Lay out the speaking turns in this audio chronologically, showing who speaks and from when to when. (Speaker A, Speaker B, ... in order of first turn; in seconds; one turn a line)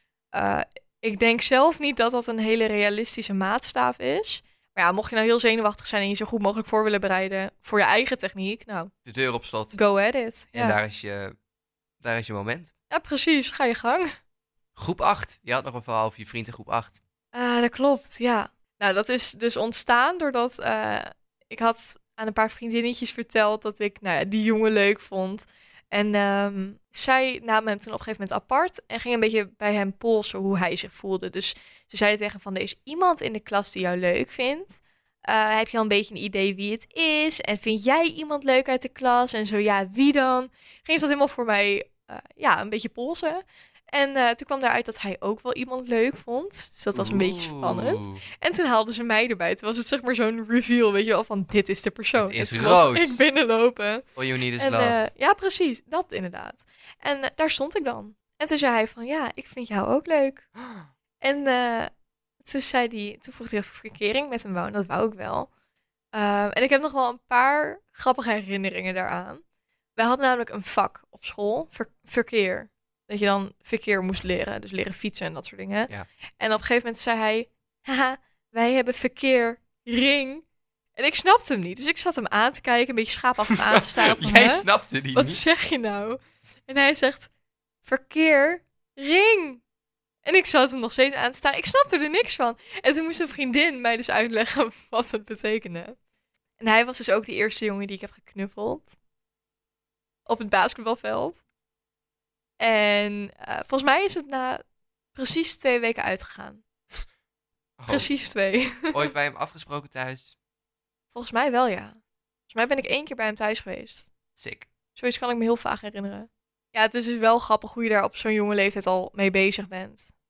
Speaker A: 0.3-8.9
Speaker B: 9.1-9.8
Speaker A: 9.7-10.8
Speaker B: 10.5-11.3
Speaker B: 12.0-12.7
Speaker A: 12.9-14.1
Speaker B: 14.8-17.0
Speaker A: 17.3-54.1
Speaker B: 46.9-48.2
Speaker B: 52.2-53.2
Speaker B: 54.2-55.0
Speaker A: 54.6-60.5
Speaker B: 60.6-60.9
Speaker A: 61.2-61.9
Speaker A: 62.4-65.5
Speaker A: 66.1-69.4
Speaker A: 70.0-80.4
Speaker A: 81.0-87.3
Speaker B: 83.5-85.4
Speaker A: 87.8-89.6
Speaker A: 90.2-96.0
Speaker A: 96.6-98.9
Speaker A: 100.3-101.4
Speaker A: 102.6-104.6
Speaker A: 105.2-106.6
Speaker B: 107.8-108.1
Speaker A: 107.9-109.1
Speaker B: 108.9-110.3
Speaker A: 111.2-114.1
Speaker B: 114.4-114.7
Speaker A: 115.0-120.1